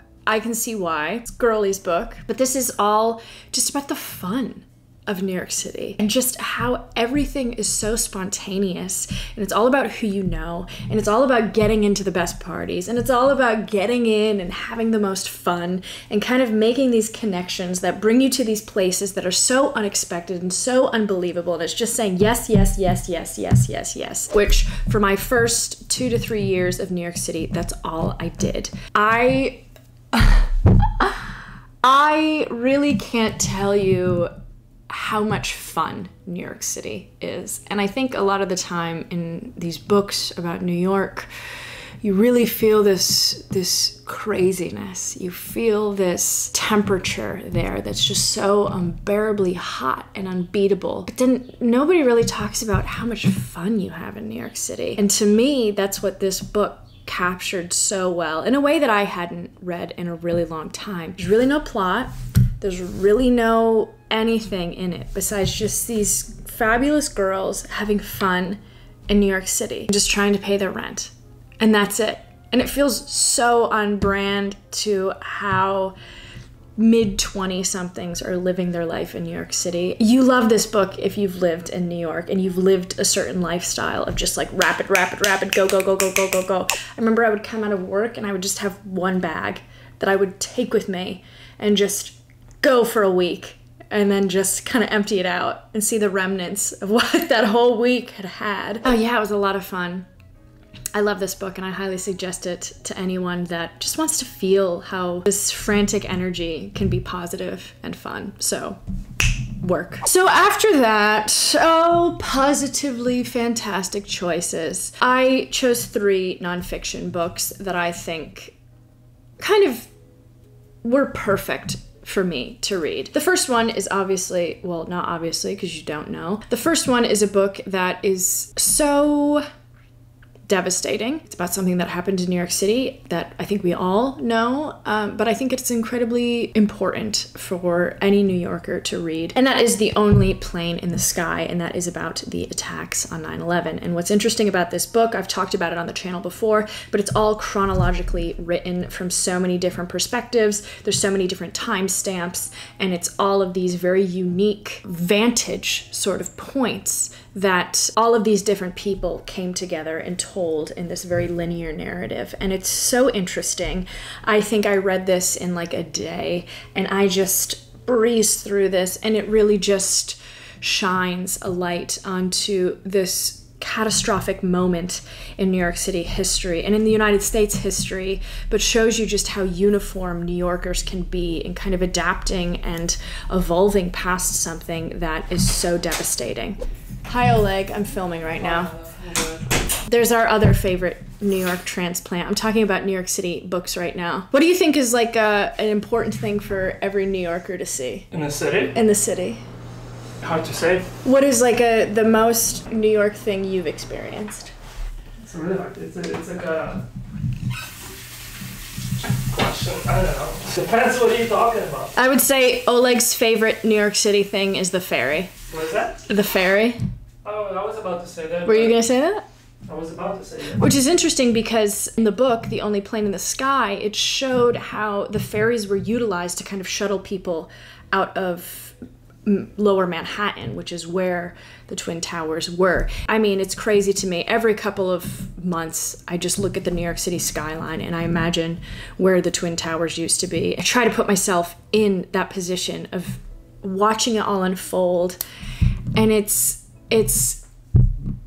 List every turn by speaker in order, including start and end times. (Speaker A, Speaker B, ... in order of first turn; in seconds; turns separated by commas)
Speaker A: 0.2-29.6, Speaker A: 30.1-34.3, Speaker A: 34.9-41.3, Speaker A: 42.0-76.0, Speaker A: 76.8-100.0, Speaker A: 100.9-108.8, Speaker A: 109.6-118.5, Speaker A: 119.4-119.9, Speaker A: 120.8-129.4, Speaker A: 130.5-188.8, Speaker B: 188.7-189.4, Speaker A: 189.8-198.1, Speaker B: 198.1-198.7, Speaker A: 198.7-199.4, Speaker B: 200.2-200.8, Speaker A: 201.0-204.5, Speaker B: 205.2-206.8, Speaker B: 209.2-211.9, Speaker A: 211.9-215.3, Speaker B: 215.5-216.0, Speaker A: 216.1-216.8, Speaker B: 217.2-218.8, Speaker A: 218.4-219.2, Speaker B: 219.7-220.6, Speaker A: 220.6-245.2, Speaker A: 245.9-247.4